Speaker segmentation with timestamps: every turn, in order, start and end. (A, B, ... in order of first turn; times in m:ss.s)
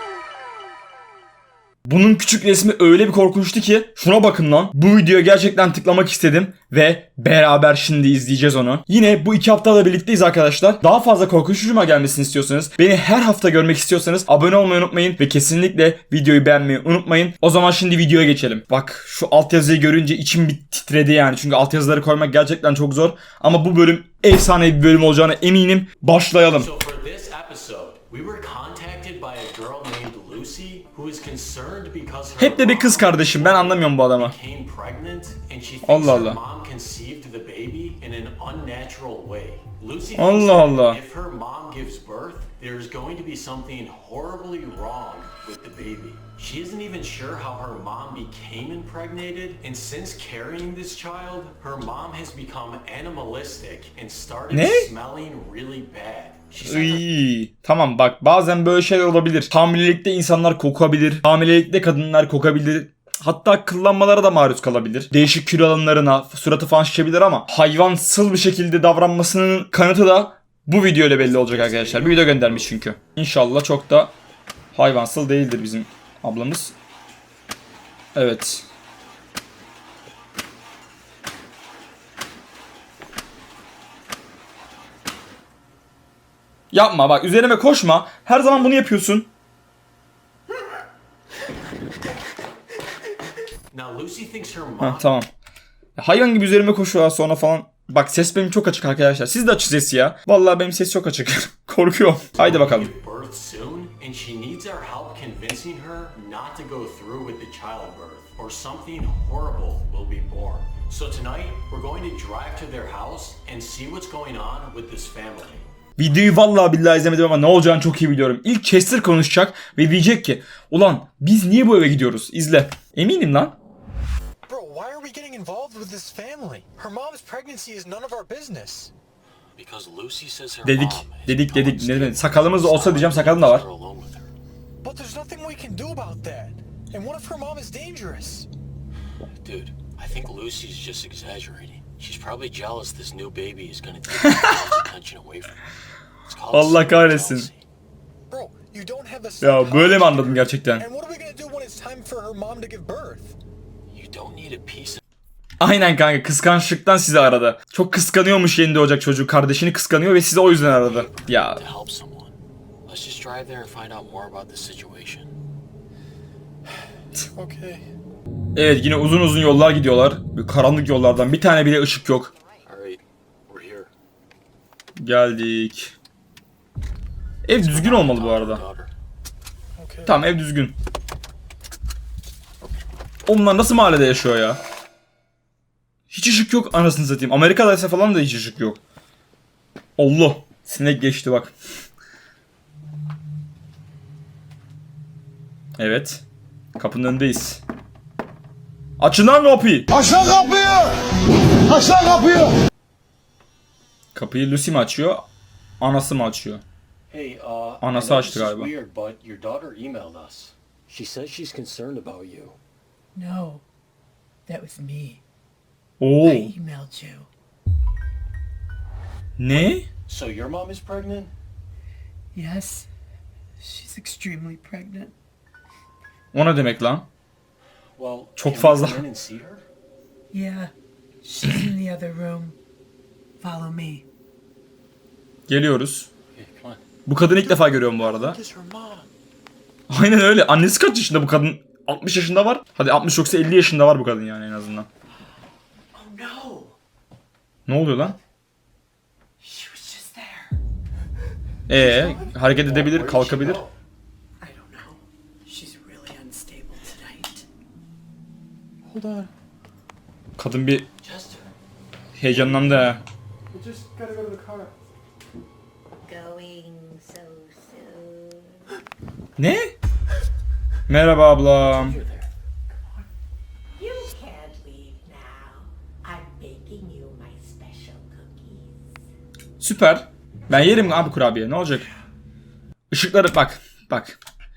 0:01.8-0:26.7 A
0:26.5-0:57.0 B
0:32.4-0:34.3 A
0:35.8-0:36.4 A
0:40.2-0:41.0 A
0:54.5-0:54.9 A
0:56.6-1:14.1 A
1:11.2-1:12.8 B
1:14.7-1:16.7 A
1:18.2-1:18.7 A
1:26.7-1:29.3 A
1:33.7-1:35.1 B
1:34.8-1:35.3 A
1:36.0-1:42.9 A
1:42.3-1:55.7 B
1:56.0-2:03.6 A
2:04.5-2:08.9 C
2:09.6-2:14.3 B
2:10.6-2:13.6 A
2:14.8-2:18.5 C
2:19.4-2:25.6 B
2:24.2-2:24.5 A
2:26.2-2:27.6 B
2:26.5-2:27.5 A
2:28.3-2:33.4 C
2:29.4-2:30.9 A
2:33.9-2:35.0 B
2:35.6-2:41.6 A
2:40.5-2:42.4 B
2:42.9-2:45.4 B
2:47.3-2:47.8 C
2:48.6-2:52.3 A
2:52.6-2:53.9 B
2:55.0-2:55.9 A
2:57.4-2:58.6 A
2:57.6-2:58.9 B
2:59.8-3:00.2 C
3:00.1-3:00.8 A
3:03.3-3:04.6 A
3:06.1-3:08.8 A
3:10.0-3:11.5 A
3:15.8-3:16.2 A
3:16.8-3:17.6 A
3:19.0-3:20.4 A
3:24.2-3:25.3 A
3:25.8-3:26.6 A
3:27.1-3:32.6 B
3:27.8-3:28.7 A
3:33.2-3:33.6 D
3:34.5-3:35.2 D
3:36.0-3:36.5 A
3:36.2-3:37.3 D
3:39.4-3:39.9 A
3:39.5-3:41.3 B
3:42.4-3:42.9 D
3:43.6-3:45.1 D
3:46.3-3:47.1 A
3:48.0-3:49.6 B
3:48.4-3:49.0 A
3:50.3-3:50.7 D
3:51.2-3:52.6 D
3:51.5-3:51.8 C
3:53.4-3:54.0 D
3:55.5-3:56.1 A
3:56.3-3:56.8 B
3:57.1-3:58.4 A
3:57.3-3:59.1 C
3:59.9-4:04.9 A
4:06.0-4:06.4 C
4:06.1-4:06.8 D
4:07.7-4:08.2 A
4:09.7-4:10.2 D
4:11.7-4:13.6 A
4:11.8-4:12.3 C
4:12.6-4:13.7 B
4:14.4-4:16.7 D
4:15.9-4:16.2 C
4:16.7-4:17.4 C
4:18.8-4:19.3 C
4:20.4-4:20.9 A
4:21.0-4:21.4 B
4:22.2-4:23.0 A
4:23.5-4:24.7 C
4:26.1-4:28.7 E
4:29.4-4:29.7 A
4:30.9-4:32.0 A
4:31.6-4:32.3 B
4:33.8-4:38.8 E
4:39.6-4:41.9 A
4:40.5-4:41.2 B
4:42.9-4:44.2 A